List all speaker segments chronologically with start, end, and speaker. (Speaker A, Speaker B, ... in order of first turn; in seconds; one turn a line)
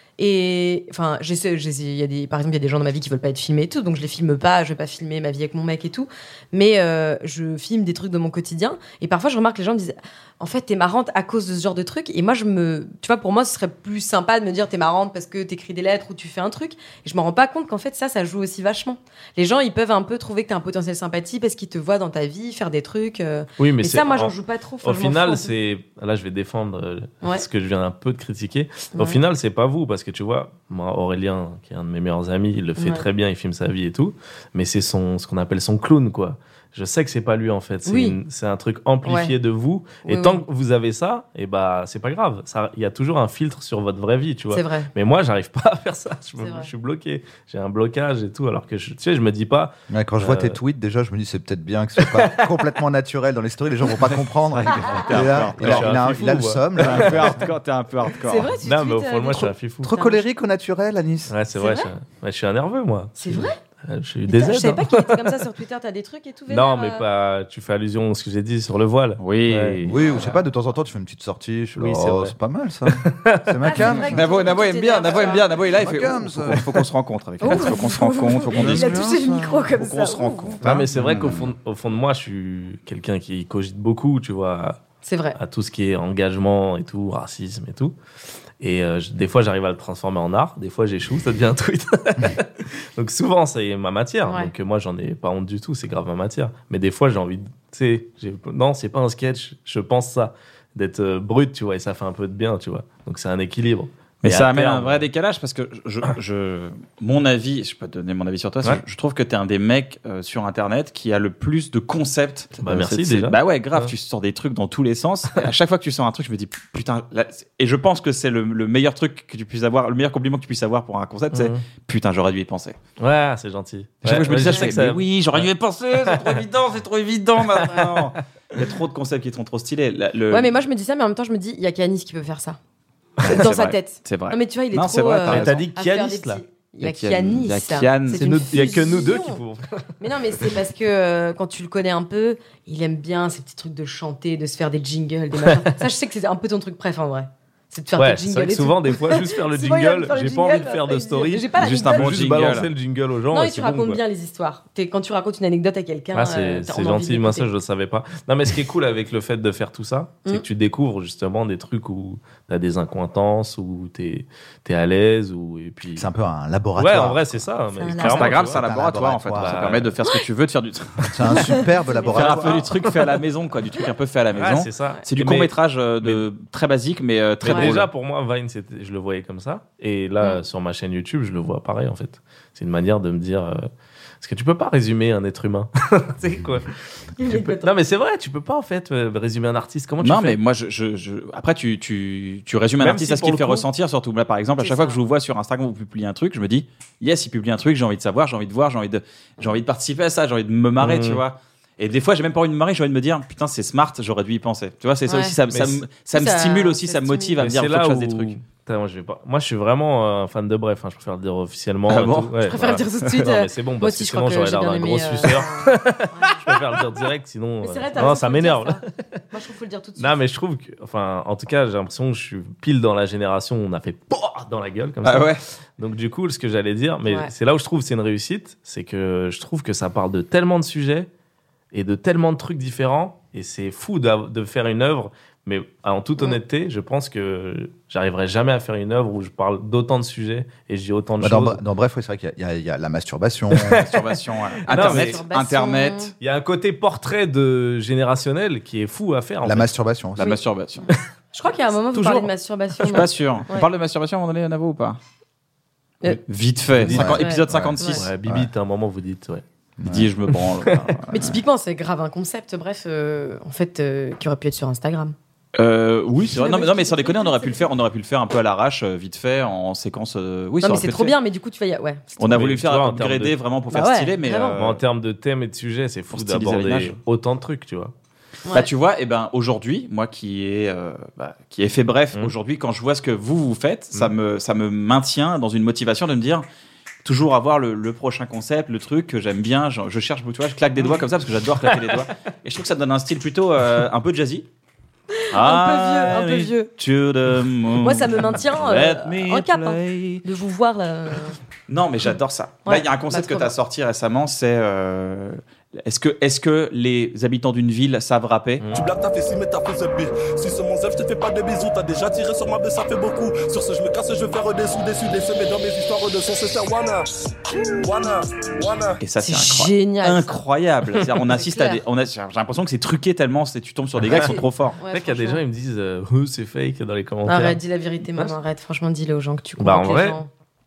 Speaker A: 0.2-25.5
Speaker B: 23.6-50.6
Speaker A: 28.9-29.2
Speaker A: 32.8-33.0
Speaker A: 37.9-38.2
Speaker A: 39.0-39.3
Speaker A: 40.0-40.5
Speaker A: 44.5-44.9
Speaker A: 46.4-46.7
Speaker C: 49.9-57.4
Speaker B: 52.0-52.4
Speaker D: 54.5-56.1
Speaker B: 55.6-57.4
Speaker D: 56.8-58.5
Speaker A: 58.2-60.2
Speaker B: 58.6-59.9
Speaker C: 59.8-61.3
Speaker B: 61.3-65.4
Speaker A: 61.5-61.9
Speaker A: 63.2-63.6
Speaker A: 64.3-67.0
Speaker B: 66.5-69.9
Speaker D: 69.2-69.9
Speaker C: 69.8-74.2
Speaker B: 71.8-72.3
Speaker B: 72.8-74.0
Speaker A: 73.6-75.5
Speaker D: 73.9-79.0
Speaker C: 75.7-76.8
Speaker A: 77.4-80.6
Speaker C: 78.5-79.7
Speaker D: 79.8-81.5
Speaker B: 80.6-84.8
Speaker C: 80.6-81.3
Speaker A: 85.0-85.4
Speaker B: 85.3-87.9
Speaker B: 88.6-105.1
Speaker A: 94.2-94.5
Speaker D: 104.2-122.8
Speaker B: 112.6-113.9
Speaker B: 121.3-121.6
Speaker B: 123.0-125.5
Speaker D: 124.0-130.5
Speaker A: 124.4-124.7
Speaker B: 126.0-126.4
Speaker B: 127.6-128.6
Speaker A: 130.3-132.6
Speaker D: 133.2-135.6
Speaker A: 133.2-139.4
Speaker B: 135.2-136.4
Speaker D: 136.8-138.5
Speaker B: 138.1-139.8
Speaker A: 140.0-152.1
Speaker B: 145.4-145.7
Speaker B: 147.9-154.0
Speaker D: 151.6-152.7
Speaker A: 153.3-157.5
Speaker B: 156.1-166.1
Speaker C: 165.9-167.4
Speaker B: 166.8-168.6
Speaker A: 167.8-168.5
Speaker D: 168.0-171.4
Speaker C: 168.6-169.8
Speaker B: 169.3-169.9
Speaker C: 171.1-172.7
Speaker A: 171.3-172.7
Speaker D: 172.1-177.9
Speaker B: 174.3-176.2
Speaker B: 177.4-183.7
Speaker A: 177.4-177.7
Speaker B: 184.2-186.7
Speaker A: 187.2-187.7
Speaker B: 187.2-190.4
Speaker D: 190.0-208.3
Speaker B: 192.8-193.7
Speaker A: 194.6-195.0
Speaker B: 200.8-201.2
Speaker A: 205.1-205.3
Speaker B: 205.5-205.8
Speaker A: 206.1-207.4
Speaker B: 207.4-219.2
Speaker D: 211.9-212.3
Speaker A: 212.4-217.0
Speaker A: 217.6-220.2
Speaker B: 220.0-231.1
Speaker D: 225.0-225.4
Speaker A: 227.0-227.3
Speaker B: 231.7-241.6
Speaker C: 241.2-243.9
Speaker D: 243.8-246.1
Speaker B: 244.6-245.2
Speaker A: 244.7-246.1
Speaker B: 246.2-249.7
Speaker C: 249.4-250.3
Speaker D: 250.2-250.9
Speaker A: 250.2-253.7
Speaker B: 251.9-253.1
Speaker D: 252.8-255.0
Speaker D: 256.3-258.1
Speaker B: 256.8-257.2
Speaker C: 256.9-258.5
Speaker A: 257.0-258.0
Speaker B: 257.9-259.4
Speaker C: 259.8-260.1
Speaker D: 259.9-261.2
Speaker B: 260.6-260.9
Speaker A: 261.1-265.1
Speaker D: 265.6-271.2
Speaker A: 266.3-267.7
Speaker A: 270.6-272.2
Speaker D: 272.2-274.8
Speaker B: 272.3-273.4
Speaker A: 273.7-274.6
Speaker B: 274.6-277.9
Speaker D: 276.1-277.0
Speaker D: 278.5-286.4
Speaker D: 287.0-294.4
Speaker B: 291.7-292.1
Speaker A: 295.1-296.7
Speaker D: 295.3-300.2
Speaker A: 297.8-301.4
Speaker D: 301.7-308.6
Speaker A: 302.6-303.5
Speaker B: 308.6-308.9
Speaker E: 308.7-317.1
Speaker E: 317.8-319.0
Speaker D: 319.0-324.8
Speaker A: 319.2-320.4
Speaker A: 321.3-321.8
Speaker B: 324.1-324.4
Speaker A: 324.1-325.4
Speaker B: 324.9-327.6
Speaker A: 327.2-330.3
Speaker B: 329.6-330.2